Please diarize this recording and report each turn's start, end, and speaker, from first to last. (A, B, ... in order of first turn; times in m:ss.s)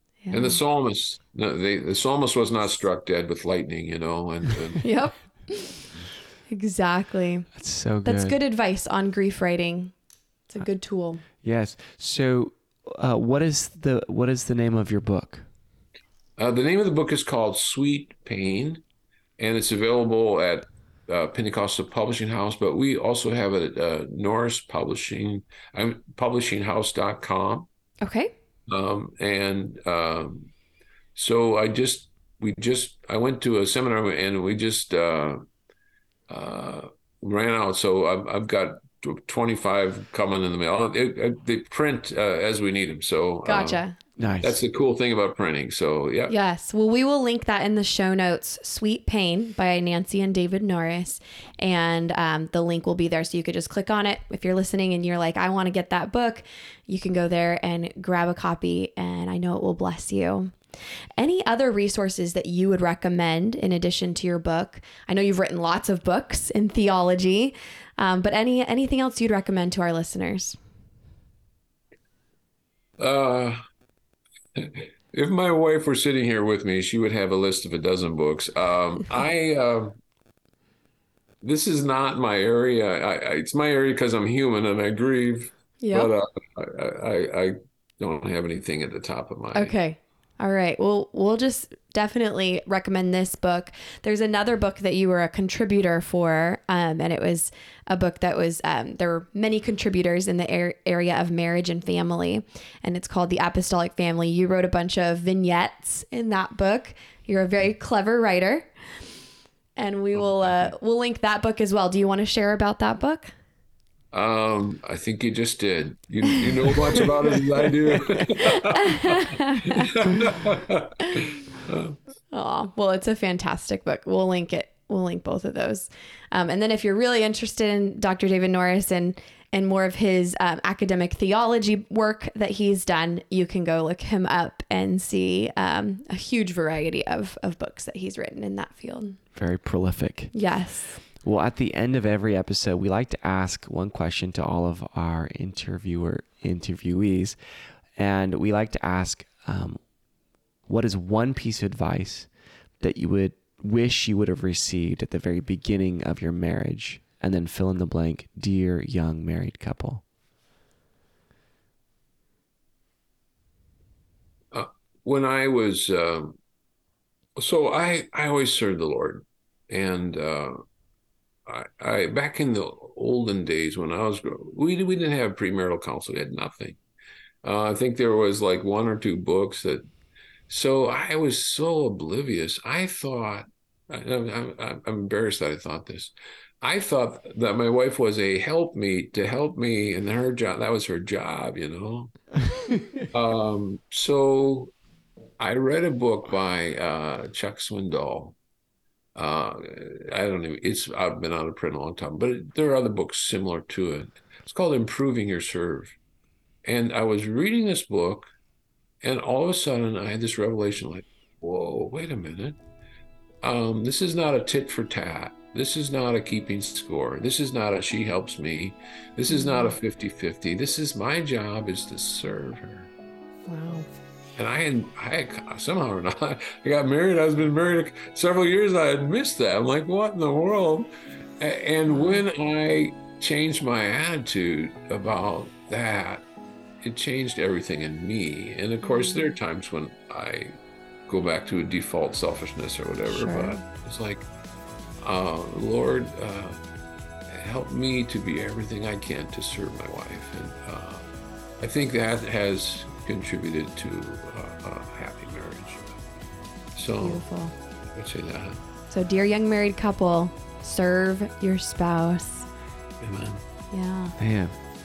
0:00.2-0:00.6 A
0:00.3-0:04.9 B
0:04.8-0:05.8 A
0:06.5-0:07.5 A
0:07.5-0:08.4 C
0:08.0-0:09.9 A
0:10.5-0:11.2 A
0:11.4-0:15.5 C
0:16.4-0:18.8 B
0:19.4-0:27.7 B
0:28.0-0:28.3 A
0:28.7-0:30.5 B
0:31.2-0:35.4 B
0:36.3-0:43.8 B
0:43.4-0:44.0 A
0:44.2-0:44.6 C
0:44.4-0:46.3 B
0:46.3-1:00.5 A
1:01.2-1:10.6 A
1:13.0-1:13.6 B
1:14.6-1:19.9 B
1:21.4-1:29.7 B
1:25.8-1:26.1 A
1:29.5-1:48.7 A
1:49.8-1:53.3 A
1:50.2-1:50.7 B
1:54.1-2:02.0 B
1:56.7-1:57.0 A
1:58.1-1:59.9 A
2:02.3-2:19.2 A
2:19.3-2:20.3 C
2:20.3-2:21.0 A
2:21.2-2:27.4 C
2:28.0-2:29.8 C
2:30.6-2:32.3 C
2:32.8-2:40.0 C
2:44.5-2:46.4 B
2:47.4-2:50.6 B
2:51.5-2:56.8 B
2:57.4-2:59.8 B
3:00.5-3:12.2 B
3:13.0-3:14.7 B
3:15.4-3:18.4 B
3:19.1-3:26.0 B
3:26.6-3:28.3 B
3:29.0-3:32.6 B
3:33.4-3:42.9 B
3:39.3-3:39.8 A
3:43.5-3:43.9 A
3:44.4-3:56.2 B
3:51.9-3:52.2 A
3:56.8-4:00.5 B
3:58.8-3:59.4 A
4:01.1-4:04.3 B
4:03.1-4:03.6 A
4:05.0-4:06.6 B
4:07.3-4:11.0 B
4:11.6-4:16.0 B
4:16.7-4:17.2 B
4:17.0-4:17.5 A
4:17.9-4:18.6 B
4:18.9-4:22.5 A
4:23.0-4:23.4 B
4:23.7-4:24.2 A
4:24.2-4:24.6 C